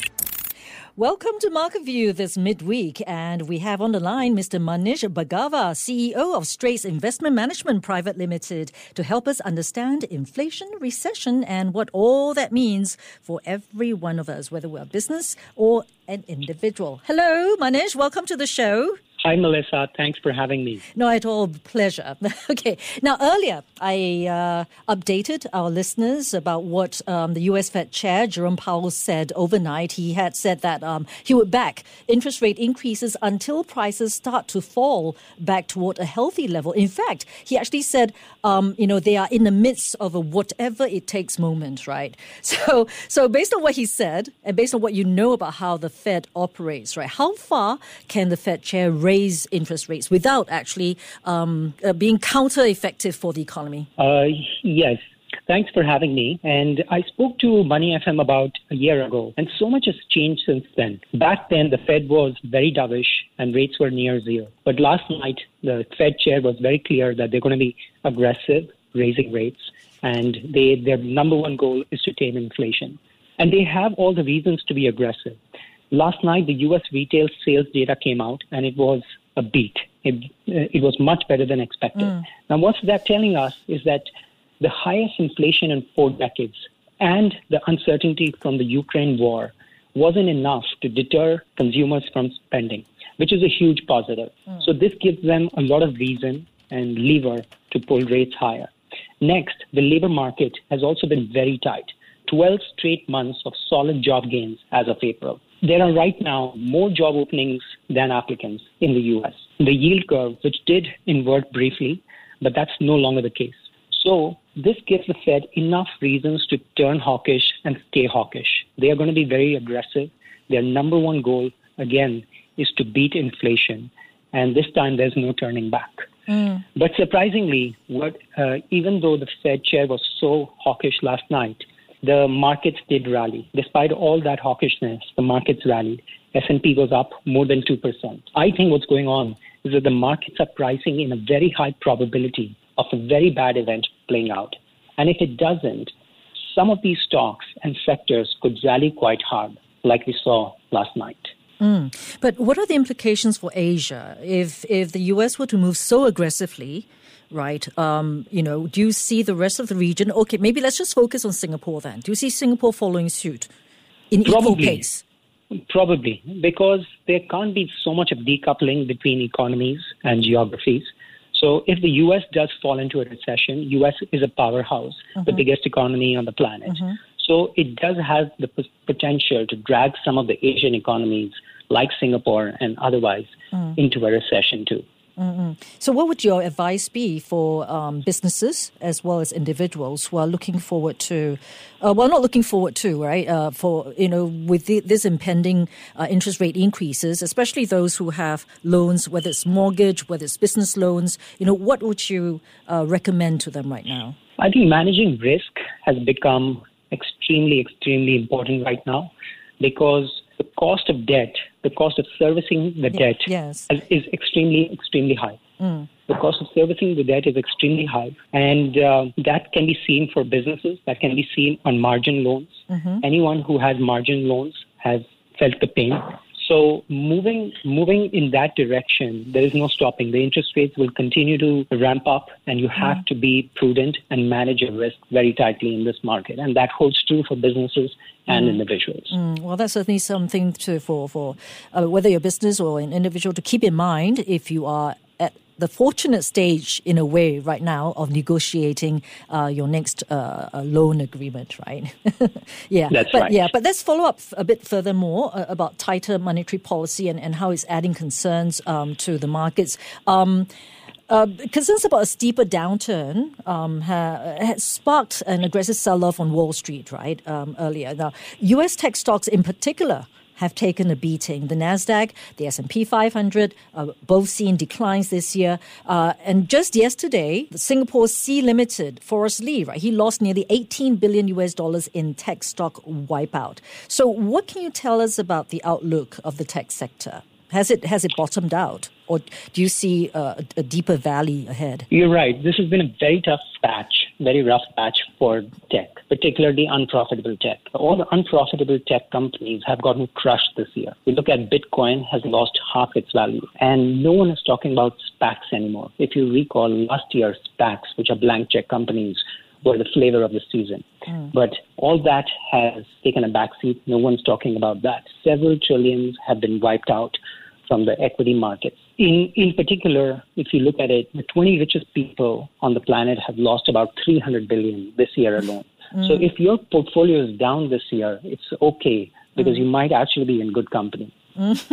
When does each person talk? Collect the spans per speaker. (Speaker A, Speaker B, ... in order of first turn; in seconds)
Speaker A: 1.0-19.0, 20.9-53.9, 151.6-163.5, 164.1-165.0, 185.2-204.2, 213.1-213.7, 215.6-215.9, 222.7-223.0, 239.1-260.5, 261.1-291.9
Speaker B: 19.2-20.8, 54.0-75.4, 75.9-84.1, 84.6-126.1, 126.8-145.9, 146.4-151.3, 164.2-164.8, 165.7-184.8, 204.4-215.4, 216.1-239.1, 252.9-253.4, 291.9-331.1